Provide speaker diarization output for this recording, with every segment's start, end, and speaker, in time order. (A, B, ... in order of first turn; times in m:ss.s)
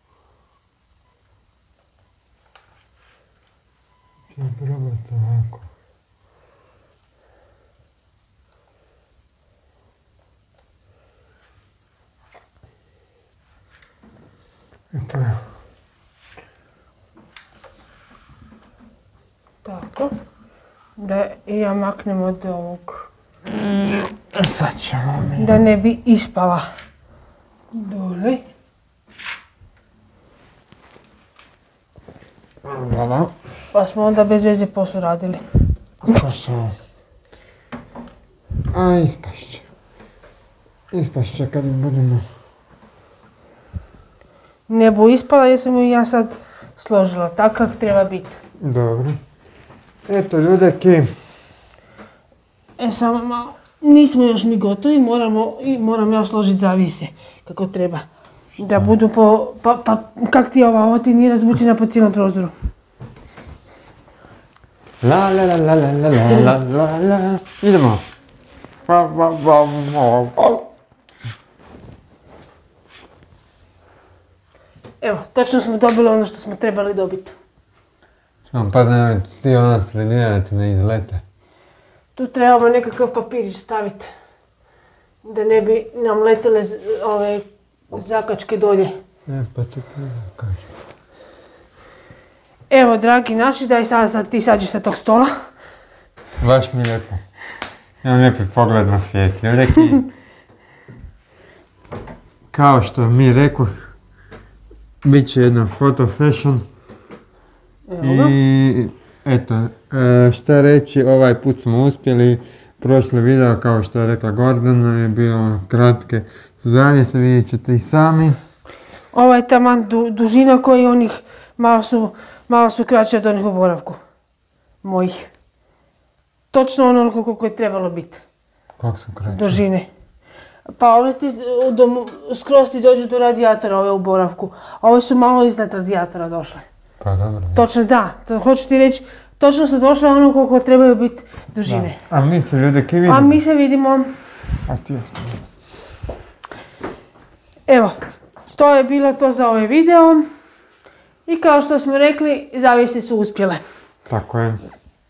0:04.3-0:05.7 A
0:14.9-0:15.4 A
0:19.6-0:20.1 B
0:21.0-0:23.1 B
0:23.6-0:25.6 A
0:25.4-0:26.7 B
0:27.7-0:28.4 B
0:32.6-0:33.3 A
0:33.7-0:35.4 B
0:36.0-0:36.8 A
0:38.7-0:39.7 A
0:40.9-0:42.3 A
0:44.7-0:48.4 B
0:48.6-0:49.2 A
0:50.1-0:51.1 A
0:52.8-0:58.1 B
0:58.6-0:59.0 A
0:58.6-1:02.5 B
1:05.0-1:08.0 A
1:08.9-1:10.6 A
1:15.0-1:17.4 B
1:18.5-1:21.2 A
1:22.2-1:24.1 B
1:25.2-1:29.0 B
1:29.3-1:30.7 A
1:32.7-1:35.3 B
1:36.4-1:37.2 A
1:38.0-1:40.1 A
1:42.5-1:44.0 A
1:45.0-1:46.6 A
1:47.9-1:48.4 B
1:48.0-1:58.4 A
1:59.1-2:04.0 B
2:04.8-2:05.3 B
2:06.5-2:08.2 B
2:08.8-2:09.6 A
2:09.3-2:09.9 B
2:10.7-2:16.6 B
2:17.0-2:17.7 A
2:17.5-2:22.0 B
2:21.7-2:23.4 A
2:23.1-2:24.1 B
2:24.7-2:25.4 A
2:27.7-2:28.0 B
2:28.5-2:30.3 B
2:31.3-2:33.6 B
2:34.1-2:34.7 A